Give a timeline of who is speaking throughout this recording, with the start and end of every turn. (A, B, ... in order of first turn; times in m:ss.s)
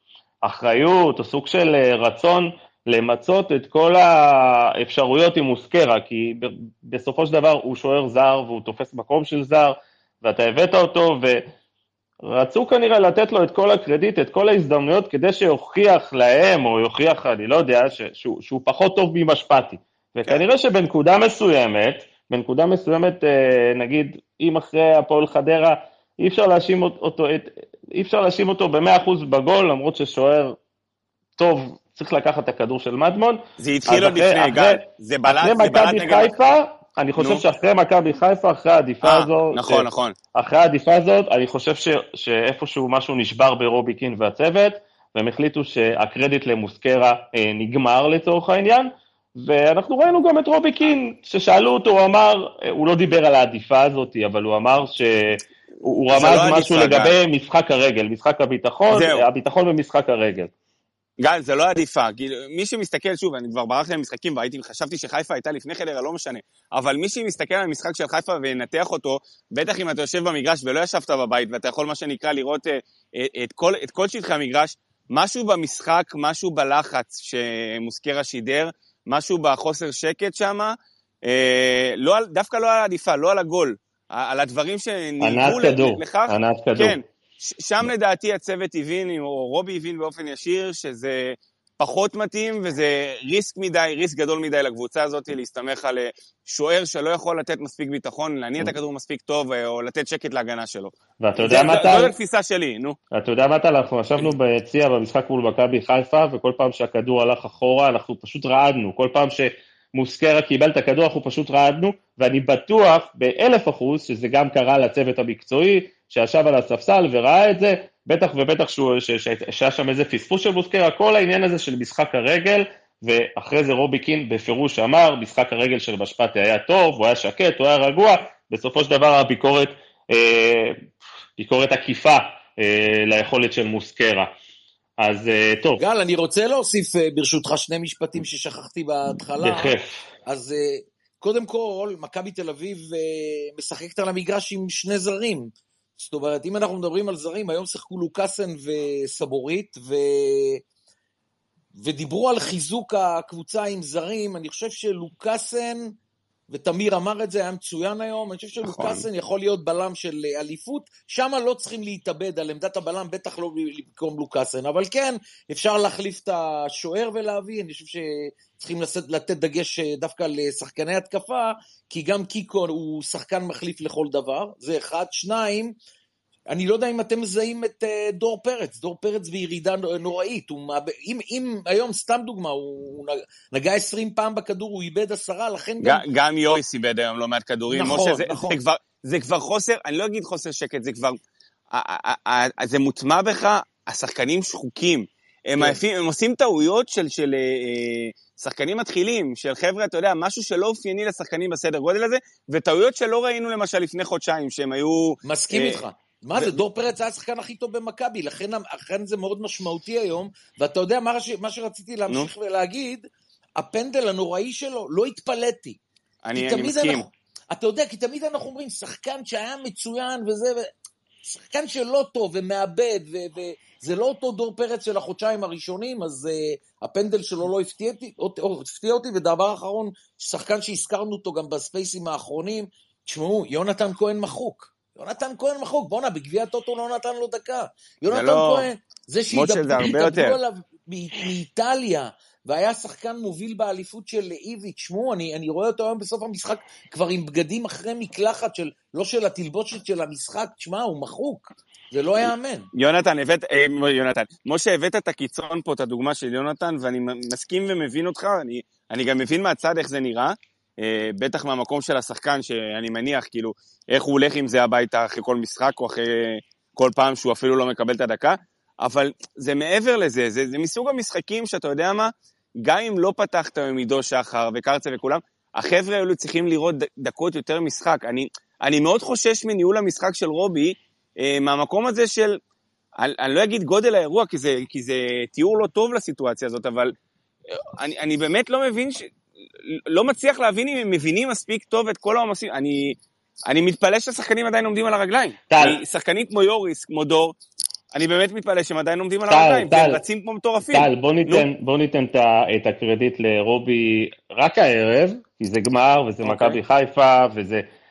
0:00.4-0:11.4 A
0:12.2-0:30.6 A
0:31.4-1:00.5 A
0:33.6-0:36.3 B
0:37.2-0:37.4 B
0:39.0-0:40.2 B
0:56.1-0:57.1 B
0:58.9-0:59.2 B
1:01.2-1:43.0 B
1:25.2-1:27.0 A
1:41.2-1:42.1 A
1:43.1-2:10.8 A
2:11.4-2:14.3 A
2:15.0-2:15.8 A
2:15.8-2:30.6 C
2:19.4-2:20.0 A
2:31.8-2:35.9 C
2:36.5-2:55.7 C
2:38.6-2:39.0 B
2:56.5-3:06.0 C
3:05.8-3:11.2 B
3:07.7-3:08.6 C
3:11.7-3:25.8 B
3:25.2-3:35.8 C
3:36.2-3:37.0 B
3:36.3-3:40.7 C
3:41.2-4:12.7 C
3:58.1-3:58.7 B
3:59.3-4:00.4 B
4:12.7-4:42.4 B
4:43.0-4:46.9 B
4:47.8-4:49.1 B
4:49.7-4:57.4 B
4:55.5-4:55.8 A
4:57.9-5:01.4 B
4:59.3-5:00.0 A
5:00.7-5:07.6 A
5:06.2-5:06.6 B